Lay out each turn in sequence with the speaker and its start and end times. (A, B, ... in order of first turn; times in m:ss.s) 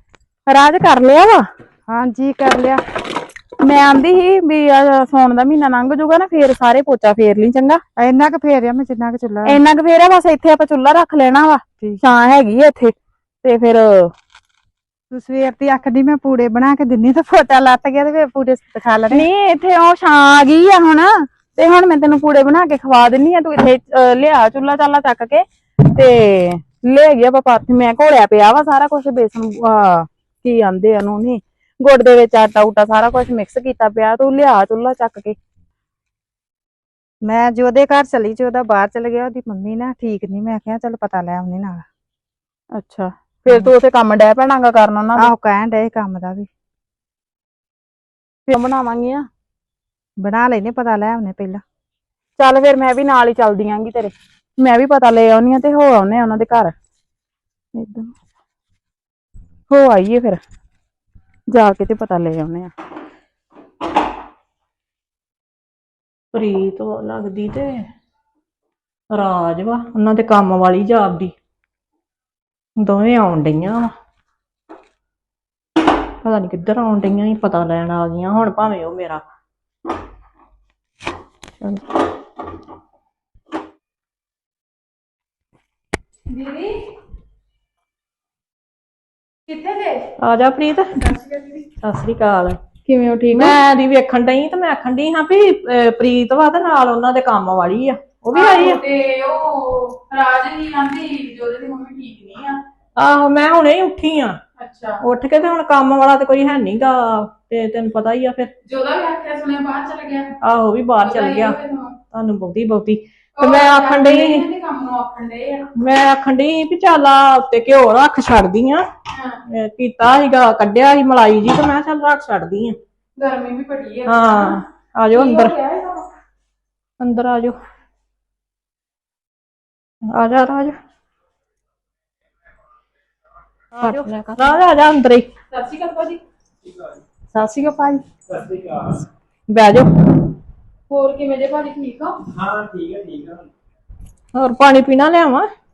0:00.5-0:01.4 A
0:01.9-0:02.8 B
0:03.6-0:07.8 A
0:08.0-0:09.6 B
0:09.4-0:14.1 A
0:15.1-0:19.2 B
0:19.1-0:35.4 A
0:37.2-0:41.8 B
0:42.8-0:45.3 A
0:45.2-0:46.5 B
0:48.5-0:49.2 A
0:50.2-0:51.6 B
0:52.4-0:56.7 A
0:57.7-0:58.1 A
0:59.7-1:00.4 A
1:01.5-1:02.7 A
1:06.3-1:07.8 C
1:09.1-1:11.3 C
1:12.8-1:13.9 C
1:16.2-1:19.2 C
1:26.3-1:26.8 A
1:29.5-1:30.0 A
1:30.2-1:31.0 C
1:31.0-1:31.6 A
1:31.8-1:32.6 C
1:32.8-1:33.6 A
1:33.3-1:38.8 C
1:38.3-1:42.6 A
1:43.0-1:44.4 C
1:44.6-1:45.0 A
1:45.0-1:48.5 C
1:48.6-1:50.3 A
1:50.4-1:51.6 C
1:51.0-1:52.0 A
1:52.1-1:54.4 C
1:53.4-1:55.7 A
1:55.8-1:58.8 C
1:59.1-1:59.4 A
1:59.5-2:02.8 C
2:03.2-2:04.6 A
2:04.0-2:05.5 C
2:05.1-2:06.0 A
2:07.0-2:07.6 C
2:10.1-2:10.8 C
2:13.7-2:15.3 C
2:13.8-2:14.2 B
2:15.5-2:16.2 A
2:16.6-2:17.0 D
2:17.5-2:18.0 B
2:18.2-2:19.0 D
2:19.5-2:20.0 C
2:20.9-2:22.2 A
2:22.3-2:23.5 D
2:24.3-2:25.5 C